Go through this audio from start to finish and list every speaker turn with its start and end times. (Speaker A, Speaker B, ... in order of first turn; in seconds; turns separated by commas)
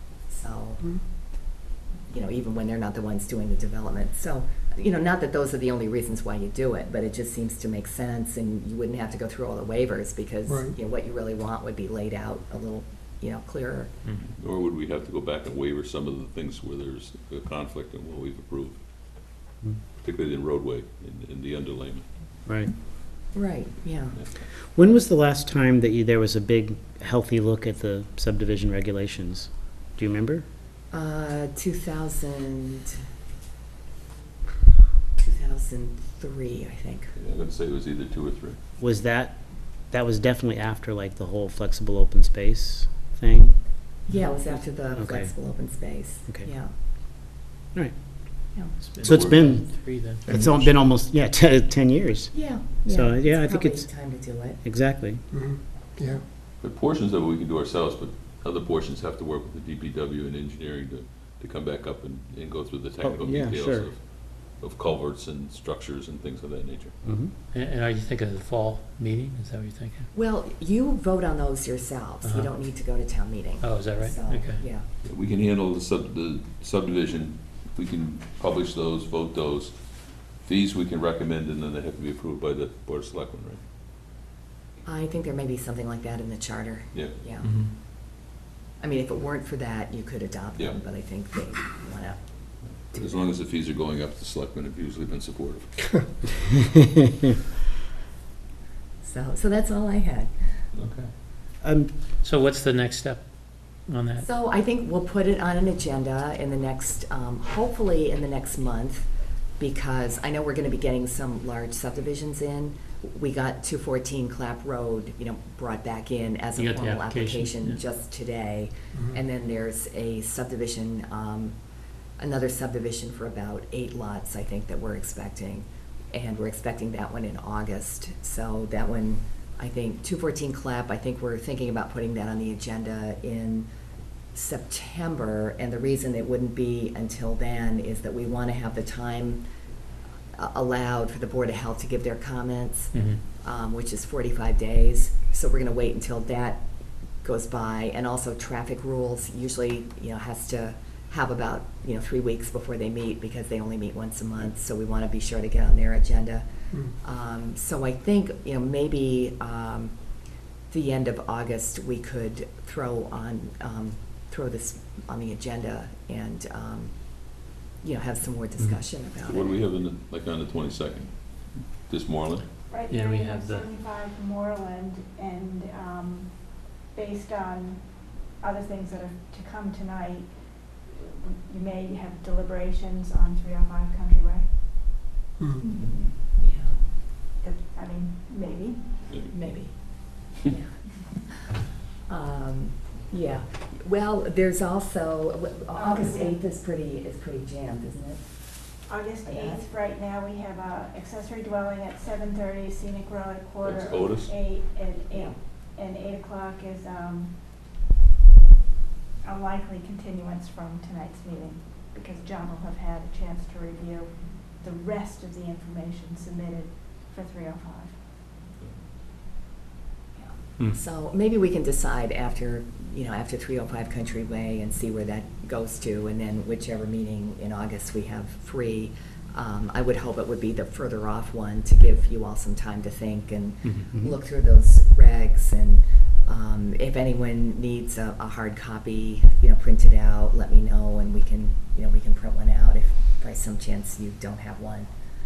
Speaker A: 0.3-0.8, Speaker A: 2.1-13.9, Speaker B: 14.1-14.3, Speaker C: 14.4-18.8, Speaker C: 20.0-22.0, Speaker D: 22.5-22.7, Speaker A: 23.3-24.2, Speaker D: 24.6-30.4, Speaker A: 30.9-33.0, Speaker A: 35.2-37.1, Speaker C: 37.2-38.6, Speaker D: 38.8-43.6, Speaker A: 44.1-46.7, Speaker D: 45.0-45.4, Speaker B: 48.8-50.2, Speaker D: 49.0-49.7, Speaker D: 50.2-55.2, Speaker A: 52.3-54.6, Speaker E: 55.3-56.2, Speaker C: 56.6-63.9, Speaker E: 60.5-60.9, Speaker D: 63.0-63.9, Speaker C: 64.6-66.9, Speaker D: 67.0-67.3, Speaker B: 67.5-70.1, Speaker A: 70.1-74.9, Speaker B: 72.2-72.5, Speaker B: 73.6-74.7, Speaker C: 75.1-79.7, Speaker E: 75.4-76.5, Speaker E: 78.9-79.3, Speaker C: 80.4-83.6, Speaker A: 84.9-87.5, Speaker B: 87.4-87.7, Speaker A: 88.8-92.2, Speaker A: 92.9-93.3, Speaker C: 93.0-95.7, Speaker A: 99.0-100.6, Speaker C: 100.7-101.1, Speaker D: 101.6-101.9, Speaker B: 102.2-104.3, Speaker A: 104.2-109.1, Speaker A: 109.6-121.5, Speaker B: 116.6-117.8, Speaker A: 122.2-133.7, Speaker A: 134.3-139.4, Speaker A: 140.4-146.6, Speaker B: 142.9-143.2, Speaker A: 147.2-156.4, Speaker A: 157.0-159.9, Speaker A: 160.7-166.9, Speaker A: 167.8-169.6, Speaker C: 169.3-171.1, Speaker C: 171.9-172.5, Speaker F: 172.7-184.9, Speaker B: 172.9-173.7, Speaker F: 185.6-186.0, Speaker A: 186.3-186.8, Speaker F: 187.4-189.4, Speaker A: 189.3-191.5, Speaker A: 192.1-198.3, Speaker F: 195.7-196.4, Speaker F: 198.9-207.4, Speaker A: 199.2-199.7, Speaker C: 203.6-204.3, Speaker F: 209.2-217.9, Speaker A: 220.2-244.9, Speaker B: 233.6-233.9